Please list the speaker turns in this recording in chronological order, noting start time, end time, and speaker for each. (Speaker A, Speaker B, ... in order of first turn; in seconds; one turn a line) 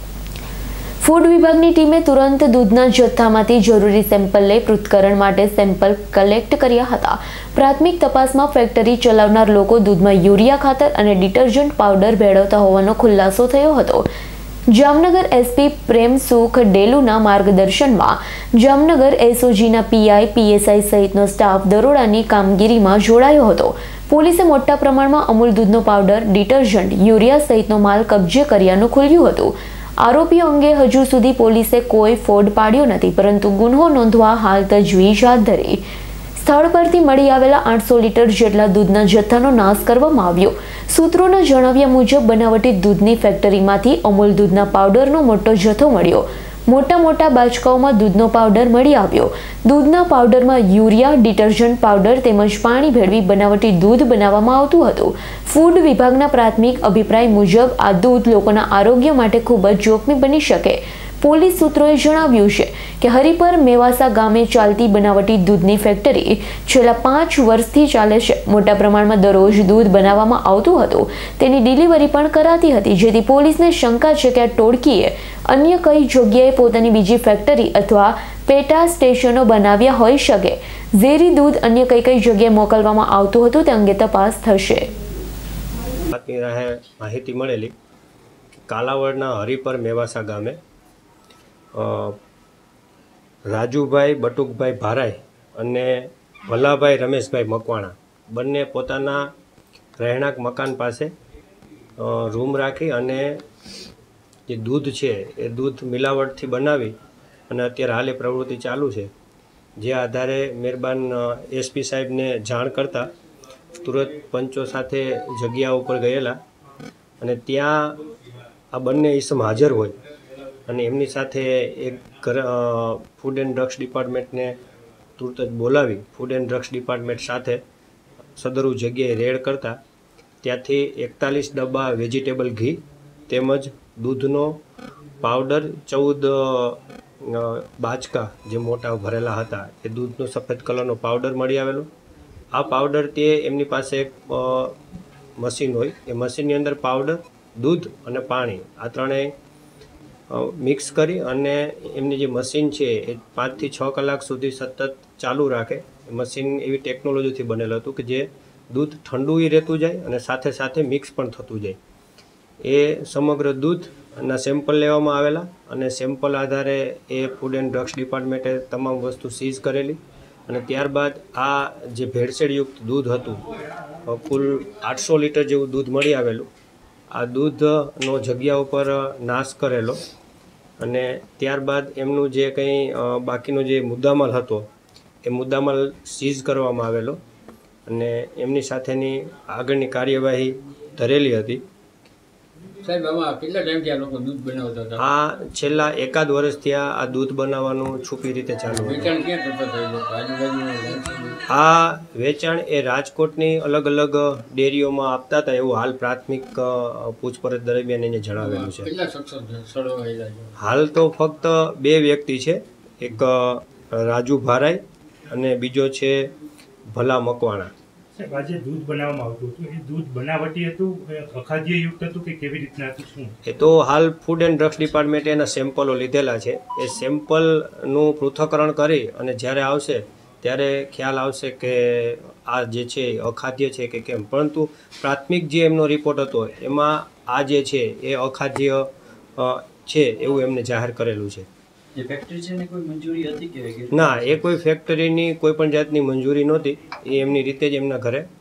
Speaker A: 1.0-14.1
Speaker A: 14.7-35.8
Speaker A: 36.3-84.9
Speaker B: 86.1-87.7
Speaker B: 88.7-90.6
Speaker B: 91.7-92.2
Speaker B: 93.5-99.3
Speaker B: 100.0-101.1
Speaker B: 102.0-103.4
Speaker B: 104.5-106.9
Speaker B: 107.5-109.1
Speaker B: 109.8-113.1
Speaker B: 113.8-116.4
Speaker B: 117.2-118.0
Speaker B: 118.7-120.0
Speaker B: 120.7-124.5
Speaker B: 125.2-127.6
Speaker B: 128.4-129.8
Speaker B: 130.4-134.6
Speaker B: 135.2-141.9
Speaker B: 142.5-144.8
Speaker B: 145.4-149.3
Speaker B: 150.3-161.8
Speaker B: 162.6-173.4
Speaker B: 174.1-176.5
Speaker B: 177.1-180.0
Speaker B: 180.8-184.7
Speaker B: 185.2-187.2
Speaker B: 187.8-191.6
Speaker C: 192.8-195.0
Speaker B: 195.0-199.1
Speaker C: 198.7-201.4
Speaker B: 201.5-208.9
Speaker C: 208.4-210.5
Speaker B: 210.6-216.3
Speaker B: 216.9-217.7
Speaker D: 218.2-223.3
Speaker B: 223.4-241.5
Speaker E: 241.9-244.4
Speaker B: 243.9-248.3